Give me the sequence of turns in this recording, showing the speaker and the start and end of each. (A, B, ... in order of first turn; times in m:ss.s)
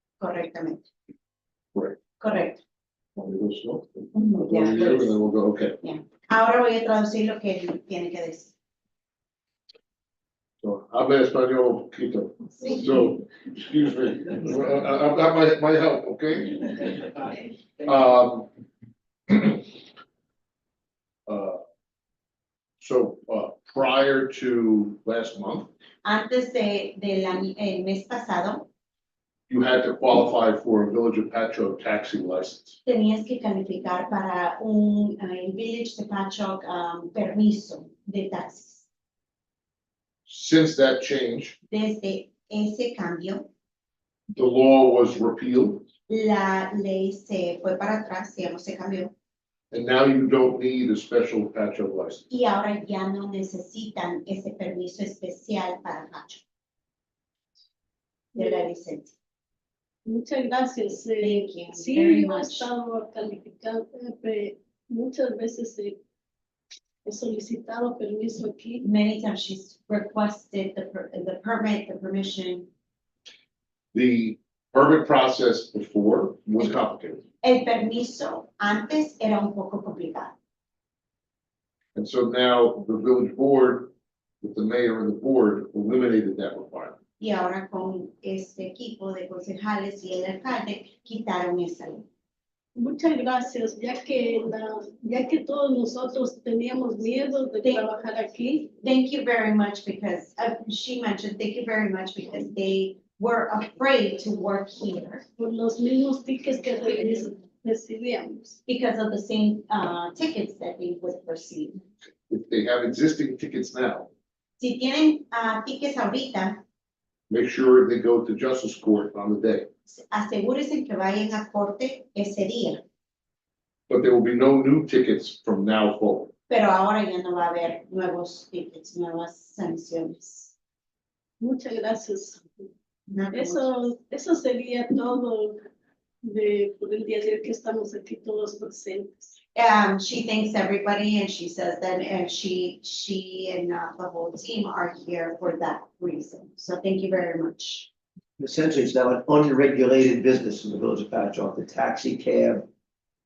0:00.2-0:00.9 A
0:02.2-0:02.6 A
0:03.2-0:05.8 B
0:04.1-0:05.2 A
0:05.8-0:08.5 A
0:10.6-0:18.5 B
0:19.3-0:19.7 B
0:21.3-0:21.6 B
0:22.8-0:25.7 B
0:26.0-0:28.7 A
0:29.5-0:32.8 B
0:32.8-0:38.9 A
0:40.3-0:41.6 B
0:41.7-0:43.5 A
0:44.3-0:45.9 B
0:46.1-0:49.1 A
0:49.7-0:52.2 B
0:52.3-0:56.4 A
0:58.4-0:58.7 C
0:58.4-0:59.1 A
1:00.1-1:06.0 C
1:01.2-1:02.7 A
1:07.0-1:08.8 C
1:08.8-1:12.7 A
1:13.9-1:17.2 B
1:17.4-1:20.4 A
1:22.0-1:27.0 B
1:27.2-1:32.0 A
1:32.8-1:38.7 C
1:38.8-1:45.2 A
1:45.4-1:48.6 C
1:48.7-1:51.8 A
1:52.3-1:54.1 B
1:54.6-1:56.6 A
1:57.3-1:59.7 B
1:59.9-2:02.8 A
2:03.9-2:06.3 B
2:06.5-2:10.5 A
2:11.4-2:12.7 C
2:13.1-2:13.7 A
2:13.3-2:15.6 C
2:16.2-2:19.4 C
2:19.6-2:27.9 A
2:28.4-2:32.6 D